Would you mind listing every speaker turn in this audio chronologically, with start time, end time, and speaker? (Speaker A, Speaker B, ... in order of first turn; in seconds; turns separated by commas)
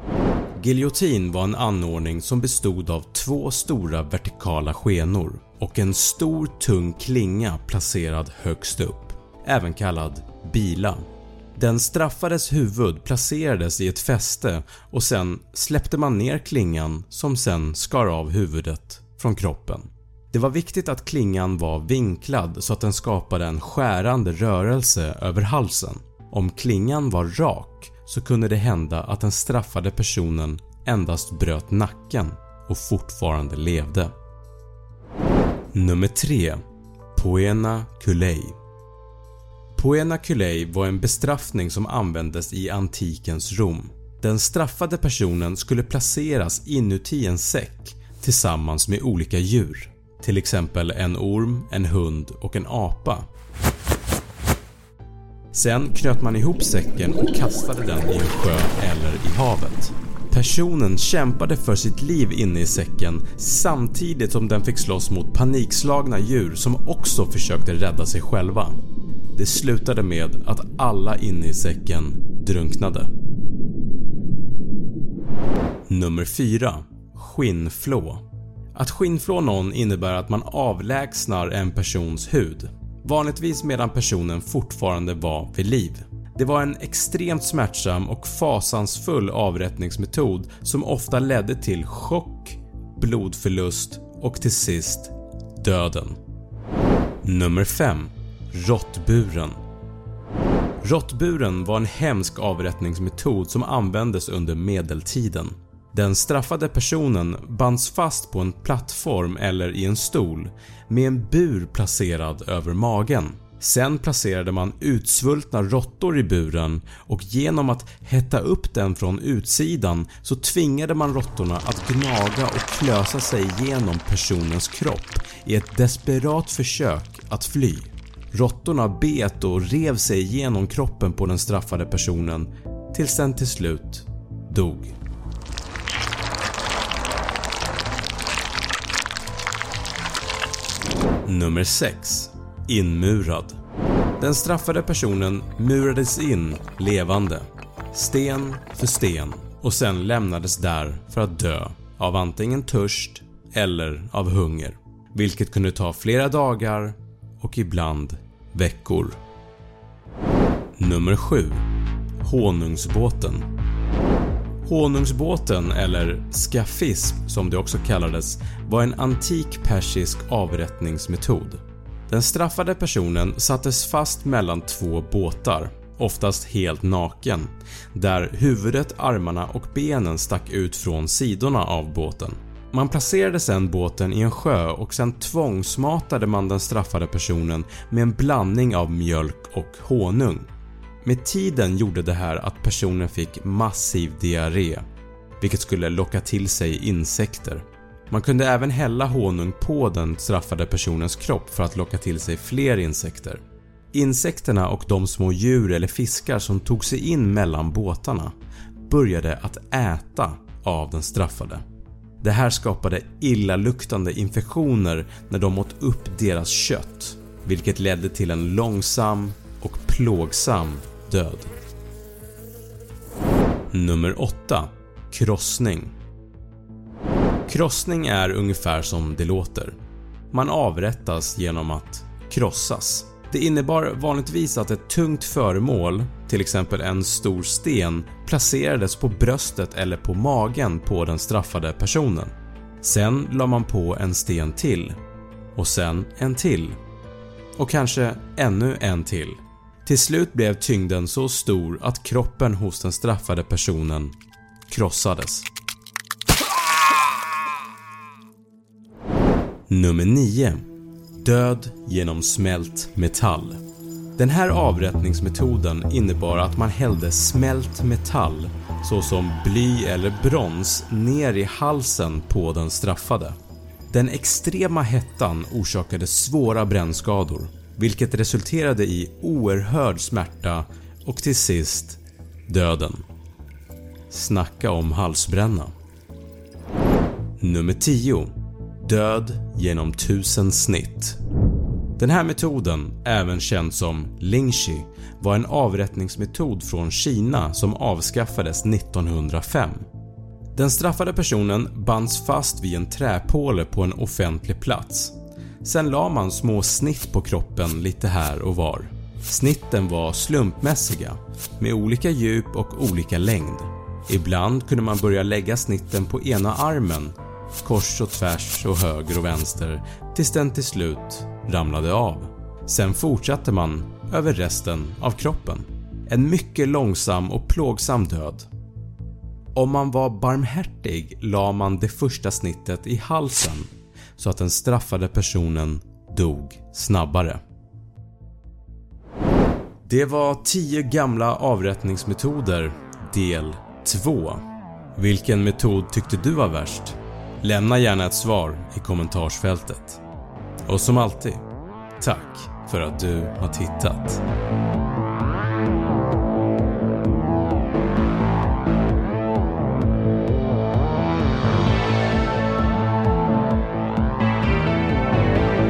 Speaker A: 0.6-11.0, Speaker A: 11.6-34.1, Speaker A: 35.7-36.6, Speaker A: 37.1-38.5, Speaker A: 39.8-53.3, Speaker A: 55.5-68.8, Speaker A: 69.3-73.1, Speaker A: 75.9-78.2, Speaker A: 78.7-96.2, Speaker A: 97.2-99.6, Speaker A: 100.8-134.9, Speaker A: 141.2-143.6, Speaker A: 144.2-159.2, Speaker A: 160.8-161.6, Speaker A: 162.2-163.5, Speaker A: 164.6-190.5, Speaker A: 191.0-194.8, Speaker A: 195.4-203.4, Speaker A: 203.9-208.3, Speaker A: 208.9-211.6, Speaker A: 212.2-221.5, Speaker A: 223.7-225.9, Speaker A: 227.5-229.8, Speaker A: 230.3-245.0, Speaker A: 245.5-246.8, Speaker A: 247.6-254.1, Speaker A: 254.7-255.5, Speaker A: 259.7-260.6, Speaker A: 261.2-263.6, Speaker A: 264.2-273.4, Speaker A: 273.9-283.0, Speaker A: 284.1-285.7, Speaker A: 287.4-291.2, Speaker A: 292.0-299.8, Speaker A: 300.5-328.5, Speaker A: 329.5-337.4, Speaker A: 339.9-344.4, Speaker A: 344.9-350.0, Speaker A: 350.7-351.4, Speaker A: 352.0-354.2